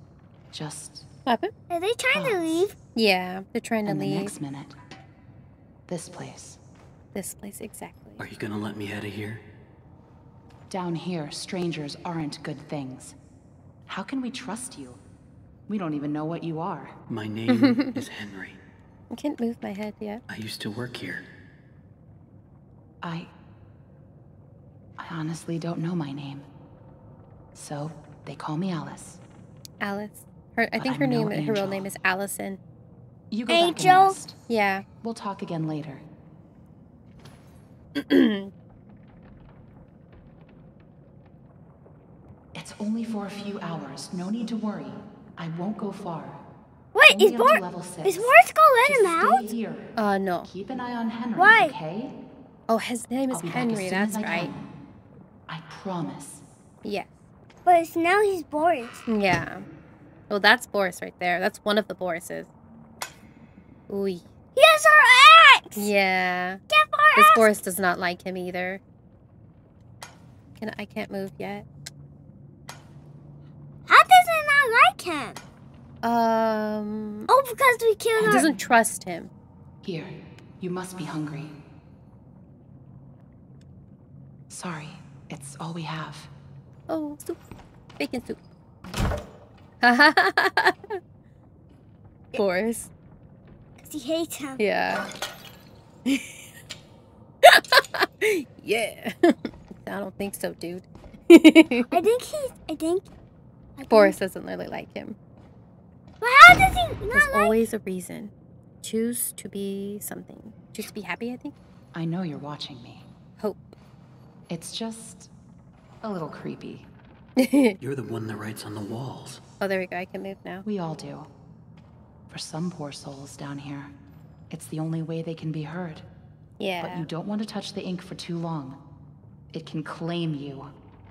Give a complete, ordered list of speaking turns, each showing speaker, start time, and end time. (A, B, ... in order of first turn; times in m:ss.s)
0:00.5-0:01.1 A
0:01.3-0:01.5 B
0:01.7-0:02.8 C
0:02.1-0:02.6 A
0:02.9-0:04.4 B
0:03.9-0:04.8 A
0:05.9-0:06.6 A
0:07.1-0:08.2 B
0:08.2-0:09.4 D
0:10.7-0:13.2 A
0:13.9-0:15.0 A
0:15.7-0:16.9 A
0:17.1-0:18.6 D
0:17.5-0:18.0 B
0:19.1-0:20.2 B
0:20.3-0:21.3 D
0:23.0-0:23.3 A
0:25.0-0:26.5 A
0:27.6-0:29.2 A
0:29.8-0:32.6 B
0:30.8-0:31.9 A
0:33.3-0:34.4 A
0:33.5-0:34.2 C
0:34.5-0:34.8 B
0:35.0-0:36.0 A
0:38.0-0:38.5 B
0:42.5-0:46.4 A
0:46.9-0:49.5 C
0:47.1-0:49.9 A
0:50.0-0:50.5 B
0:50.4-0:52.1 A
0:51.4-0:51.8 C
0:52.7-0:54.5 B
0:53.3-0:54.6 A
0:55.5-0:56.4 A
0:56.8-0:57.1 B
0:57.6-0:59.0 C
0:59.1-0:59.6 B
1:00.3-1:02.5 B
1:03.9-1:04.2 B
1:04.6-1:05.9 C
1:05.8-1:06.6 B
1:06.7-1:07.5 C
1:07.2-1:08.8 B
1:10.6-1:11.7 B
1:13.9-1:15.4 C
1:16.0-1:17.3 B
1:17.3-1:18.4 C
1:18.2-1:18.6 A
1:18.2-1:19.3 B
1:19.8-1:21.6 A
1:24.5-1:26.3 A
1:26.9-1:27.4 B
1:28.0-1:28.4 B
1:29.8-1:31.0 B
1:32.4-1:32.9 B
1:33.8-1:34.6 C
1:34.6-1:35.0 B
1:36.1-1:36.3 B
1:37.4-1:41.9 B
1:41.9-1:43.1 C
1:43.8-1:44.2 C
1:43.9-1:45.2 B
1:46.2-1:47.6 C
1:47.1-1:48.3 B
1:48.8-1:51.5 B
1:51.9-1:53.1 A
1:53.4-1:53.8 B
1:54.5-1:55.3 A
1:56.0-1:56.9 A
1:57.4-1:57.8 B
1:57.8-1:59.4 D
1:59.6-2:00.7 B
2:00.6-2:01.3 A
2:02.3-2:03.9 A
2:04.5-2:06.0 A
2:06.6-2:07.1 B
2:06.8-2:08.8 A
2:09.5-2:10.7 A